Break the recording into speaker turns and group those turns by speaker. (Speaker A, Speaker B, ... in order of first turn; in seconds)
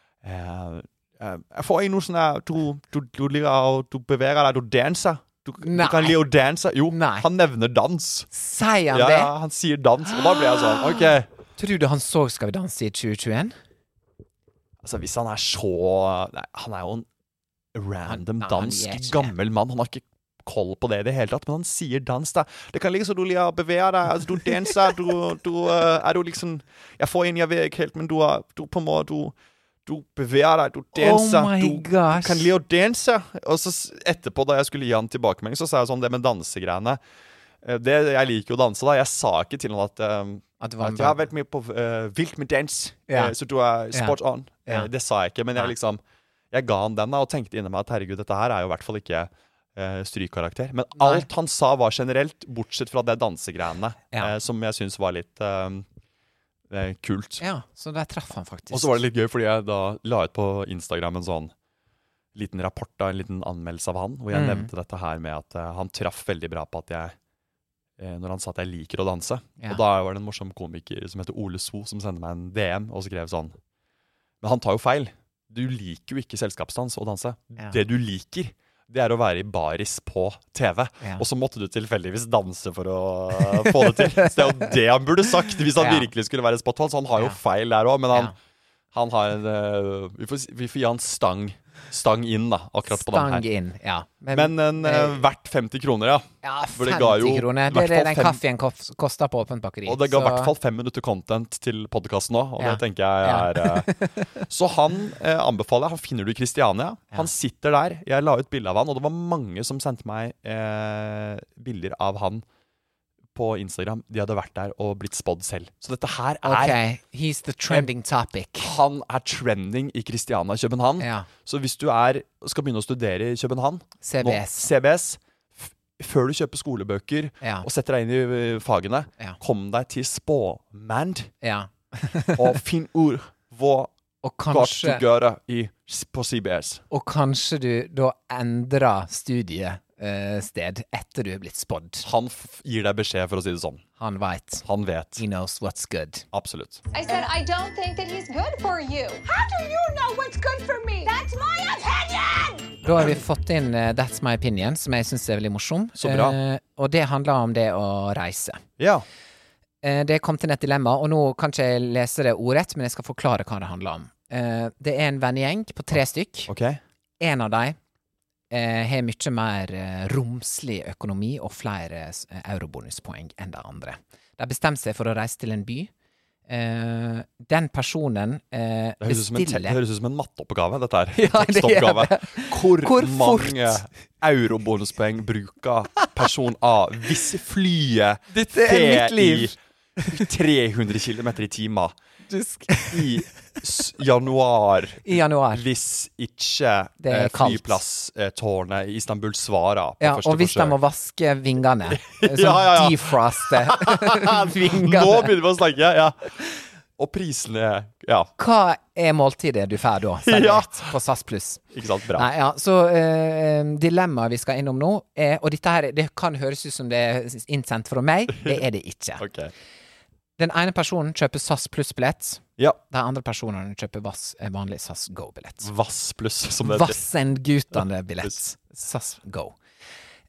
Speaker A: 0.2-8.3, 8.9-11.3, 14.8-17.1, 17.7-29.4, 29.9-37.0, 37.6-55.9, 56.7-57.4, 58.7-61.5, 62.4-67.2, 68.0-73.6, 74.4-88.3, 88.9-93.5, 94.3-98.4, 99.9-112.5, 113.3-116.8, 118.6-131.3, 132.4-133.9, 134.5-136.8, 142.0-143.8, 144.6-145.2, 146.3-146.8, 156.0-156.4, 158.8-159.1, 166.5-166.8, 179.0-189.6, 190.1-192.0, 192.9-200.8, 201.9-206.4, 207.0-208.3, 210.3-210.9, 211.7-212.3, 218.4-218.6, 219.2-219.5, 225.6-227.0
Speaker B: 5.6-6.2, 6.9-7.3, 8.3-9.3, 10.3-13.6, 18.1-19.3, 30.9-32.5, 40.6-41.2, 43.1-43.4, 43.9-44.9, 51.0-51.3, 57.4-59.0, 64.3-64.7, 83.6-84.7, 85.8-86.1, 92.9-95.2, 96.4-100.5, 102.6-104.4, 116.4-118.7, 121.0-121.3, 124.0-124.7, 127.4-127.7, 131.4-132.6, 134.2-135.0, 136.9-142.1, 144.0-144.6, 145.2-146.3, 152.8-158.6, 159.8-166.5, 167.2-167.8, 168.5-175.9, 176.5-179.8, 181.2-183.8, 188.3-190.2, 192.3-193.2, 195.1-195.7, 197.0-197.8, 200.0-205.3, 208.4-219.2, 220.4-225.7, 226.6-229.6
Speaker C: 146.9-152.8